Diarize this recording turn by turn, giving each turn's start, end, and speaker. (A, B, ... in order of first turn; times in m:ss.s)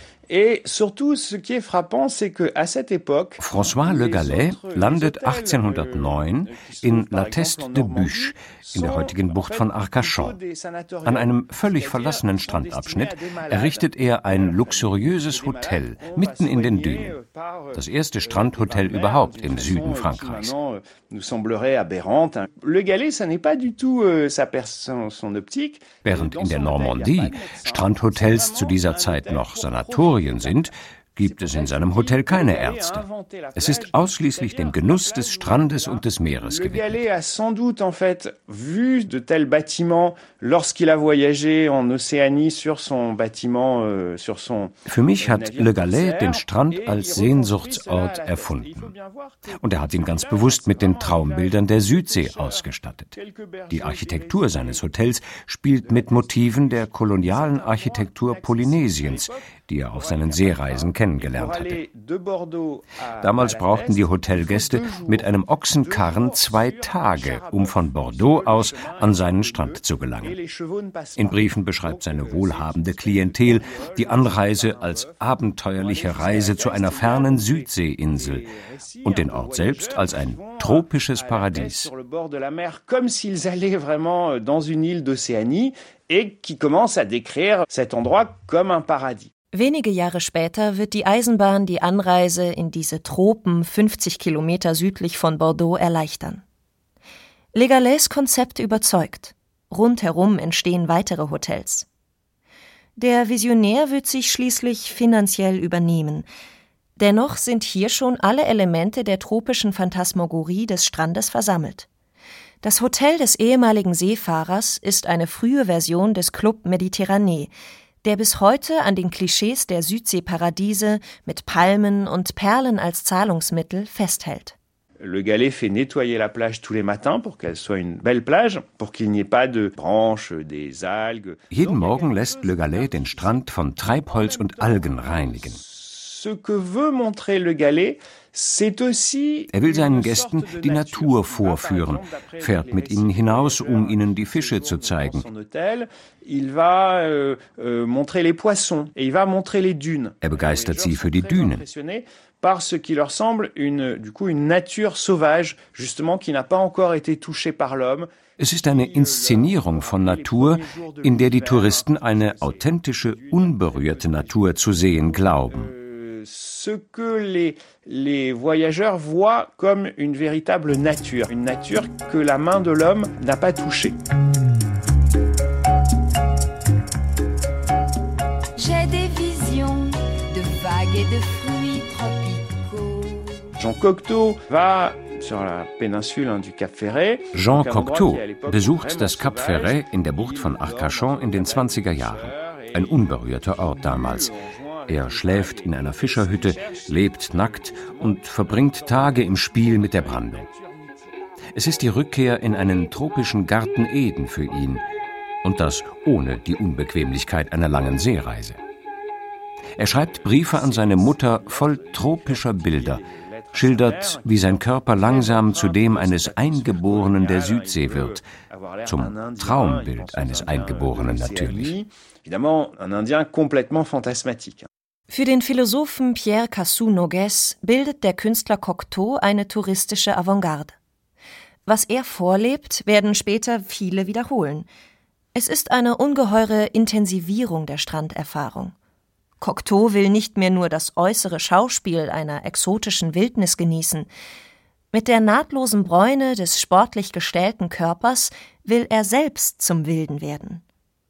0:00.3-0:30.7 A
0:03.4-0:10.4 B
0:11.1-0:17.2 B
0:17.7-0:20.5 B
0:26.0-0:33.0 B
0:31.2-0:54.9 A
0:33.6-0:37.0 B
0:44.9-0:48.9 B
0:49.5-0:53.1 B
0:53.7-1:01.8 B
0:55.8-0:59.4 A
0:59.9-1:15.2 A
1:03.2-1:10.4 B
1:11.2-1:18.4 B
1:15.8-1:29.3 A
1:19.0-1:21.9 B
1:29.5-1:36.4 C
1:37.5-1:41.9 C
1:43.0-1:46.3 C
1:47.0-1:51.9 C
1:52.6-1:57.5 C
1:58.0-2:04.6 C
2:05.0-2:54.0 A
2:11.5-2:15.6 B
2:19.5-2:25.2 B
2:30.2-2:31.6 B
2:38.4-2:45.7 B
2:58.6-3:03.5 D
3:03.6-3:21.0 A
3:07.3-3:14.3 B
3:14.9-3:20.5 B
3:21.6-3:24.8 B
3:25.4-3:28.6 B
3:29.8-3:33.0 B
3:29.8-3:44.7 A
3:33.5-3:38.2 B
3:38.9-3:41.7 B
3:45.1-3:50.7 C
3:51.6-3:54.7 C
3:55.3-3:58.7 C
3:59.4-4:04.1 C
4:04.9-4:10.6 C